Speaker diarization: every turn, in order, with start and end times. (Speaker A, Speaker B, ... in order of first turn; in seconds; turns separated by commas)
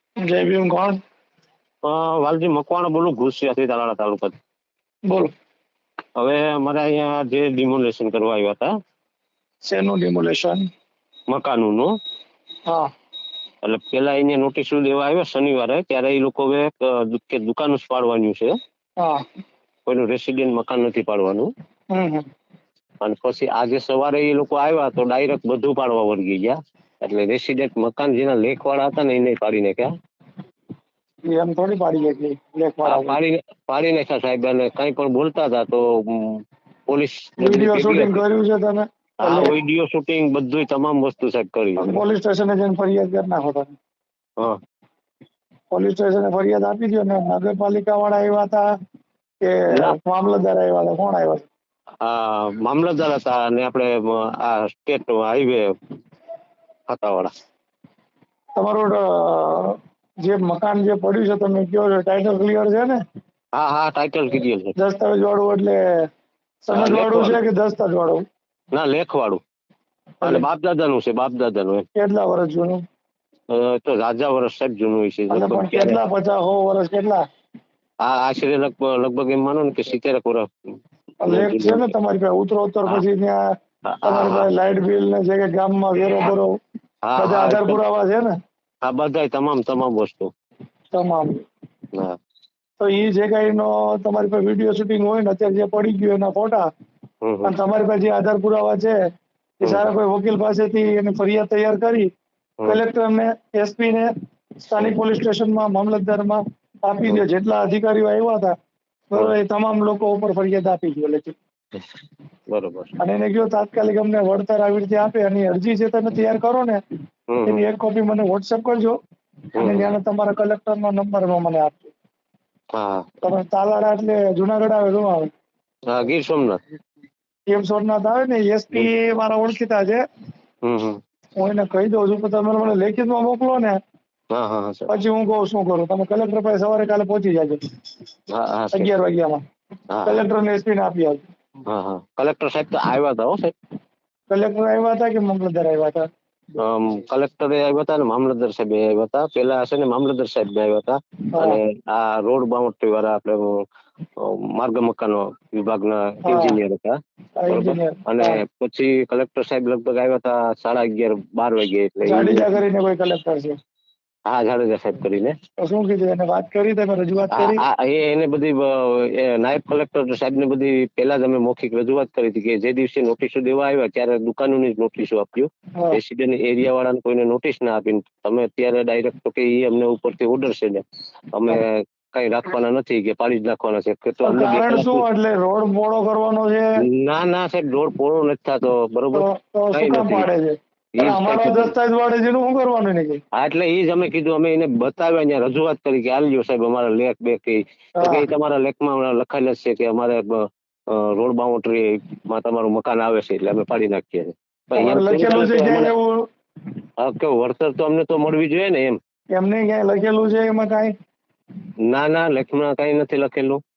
Speaker A: 0.2-1.0, Speaker B: 1.9-4.4, Speaker B: 6.2-8.7, Speaker A: 9.7-10.7, Speaker B: 11.3-12.0, Speaker B: 13.6-18.6, Speaker B: 19.9-21.5, Speaker A: 21.9-22.3, Speaker B: 23.0-29.9, Speaker A: 31.3-33.2, Speaker B: 32.8-38.2, Speaker A: 37.4-39.5, Speaker B: 39.2-42.0, Speaker A: 41.8-43.8, Speaker A: 45.7-48.6, Speaker A: 49.4-51.5, Speaker B: 52.0-55.7, Speaker B: 56.9-57.3, Speaker A: 58.6-63.0, Speaker B: 63.6-64.8, Speaker A: 64.8-65.8, Speaker A: 66.7-68.2, Speaker B: 66.7-67.4, Speaker B: 68.7-69.4, Speaker B: 70.2-71.8, Speaker A: 72.0-72.8, Speaker B: 73.5-76.0, Speaker A: 75.3-77.2, Speaker B: 78.0-80.8, Speaker A: 81.2-83.4, Speaker B: 81.3-81.9, Speaker B: 83.9-84.5, Speaker A: 84.1-86.6, Speaker B: 87.0-87.8, Speaker A: 87.2-88.3, Speaker B: 88.8-90.3, Speaker A: 90.9-91.4, Speaker A: 92.8-96.7, Speaker B: 97.2-97.5, Speaker A: 97.4-99.0, Speaker A: 99.6-102.1, Speaker A: 102.7-104.1, Speaker A: 104.6-108.5, Speaker A: 109.1-111.3, Speaker B: 112.5-112.9, Speaker A: 113.0-116.8, Speaker B: 117.3-117.7, Speaker A: 117.5-119.0, Speaker B: 119.6-119.9, Speaker A: 119.6-121.9, Speaker B: 122.8-123.1, Speaker A: 123.2-125.3, Speaker B: 125.9-126.6, Speaker A: 127.5-130.0, Speaker B: 130.6-131.0, Speaker A: 131.4-133.8, Speaker B: 134.3-134.9, Speaker A: 134.9-137.6, Speaker B: 138.3-138.9, Speaker A: 138.7-139.4, Speaker B: 139.9-140.2, Speaker A: 140.1-141.3, Speaker B: 141.7-143.5, Speaker A: 144.3-146.0, Speaker B: 146.6-153.6, Speaker B: 154.2-157.0, Speaker A: 156.2-156.6, Speaker A: 157.4-158.4, Speaker B: 157.5-162.5, Speaker A: 162.1-163.6, Speaker B: 164.3-165.3, Speaker A: 165.6-167.6, Speaker B: 167.3-185.1, Speaker A: 184.2-186.7, Speaker B: 186.8-190.3, Speaker A: 189.1-193.2, Speaker B: 191.0-191.7, Speaker B: 193.3-205.9, Speaker A: 198.0-198.2, Speaker A: 204.8-206.2, Speaker B: 207.0-209.0, Speaker A: 209.3-210.9, Speaker B: 211.9-213.6